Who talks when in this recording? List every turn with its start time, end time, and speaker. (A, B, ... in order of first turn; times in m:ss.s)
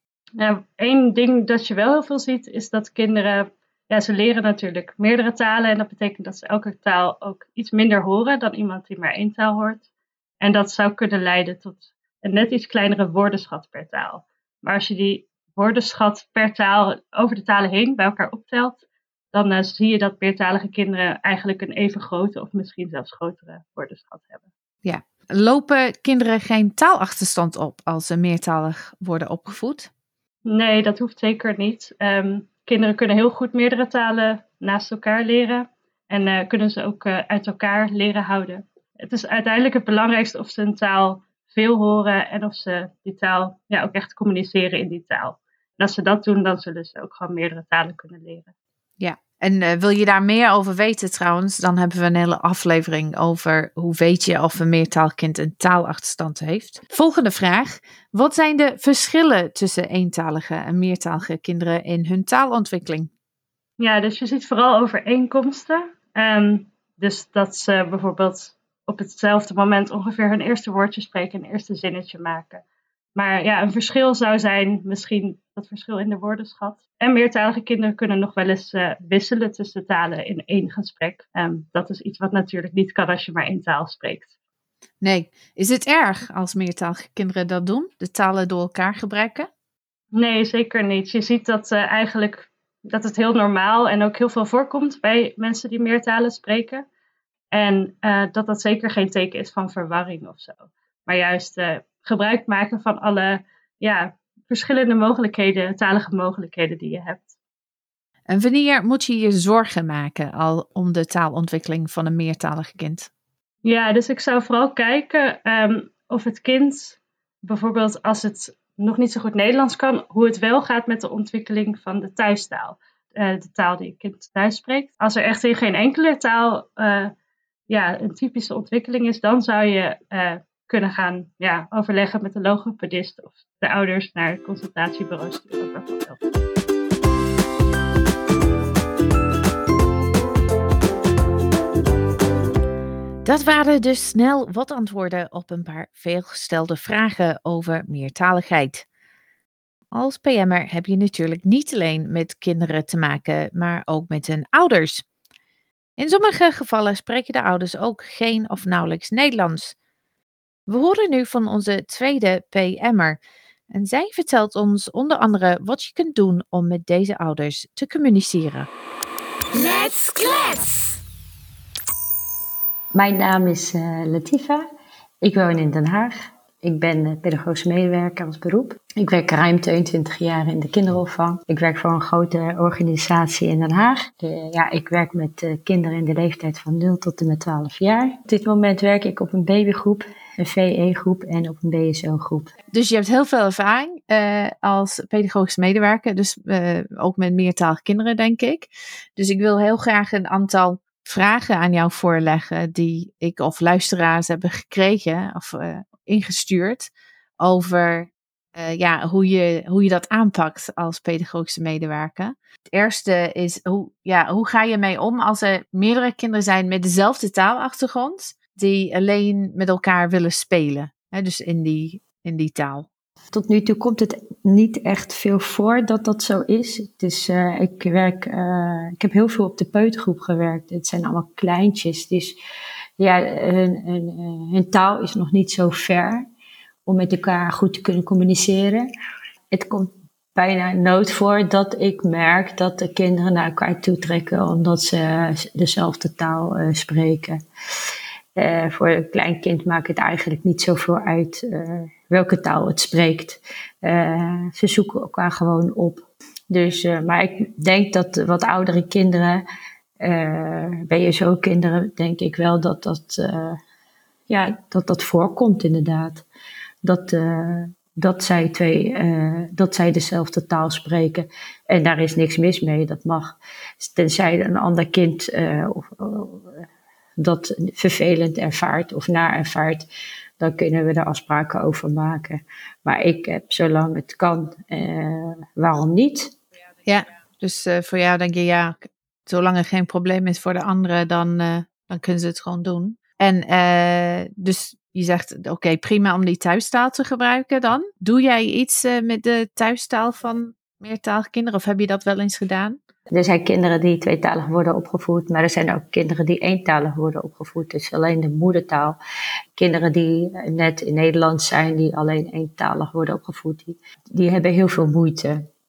0:00.4-0:09.9 A
0:10.4-0:24.4 A
0:24.8-0:29.9 B
0:30.4-0:48.5 A
0:49.0-1:03.1 B
1:03.8-1:12.6 A
1:13.2-1:24.3 A
1:25.0-1:29.5 B
1:30.1-1:36.8 A
1:37.5-1:47.3 A
1:48.3-1:53.1 B
1:53.6-2:07.1 A
2:07.7-2:16.2 A
2:23.2-2:28.9 B
2:29.9-2:35.0 B
2:36.0-2:39.8 B
2:40.7-2:43.2 B
2:43.7-2:48.7 B
2:49.5-2:50.9 C
2:52.9-2:54.6 C
2:55.2-3:12.5 C
3:12.7-3:42.9 B
3:43.3-3:52.4 C
3:53.0-3:56.3 C
3:56.9-3:58.9 C
3:59.5-4:07.4 C
4:08.4-4:19.4 C
4:20.0-4:23.6 C
4:24.3-4:26.2 C
4:26.8-4:36.6 C
4:37.2-4:39.9 C
4:40.4-4:46.3 C
4:46.9-5:02.8 B
5:03.1-5:09.0 C
5:09.6-5:15.5 C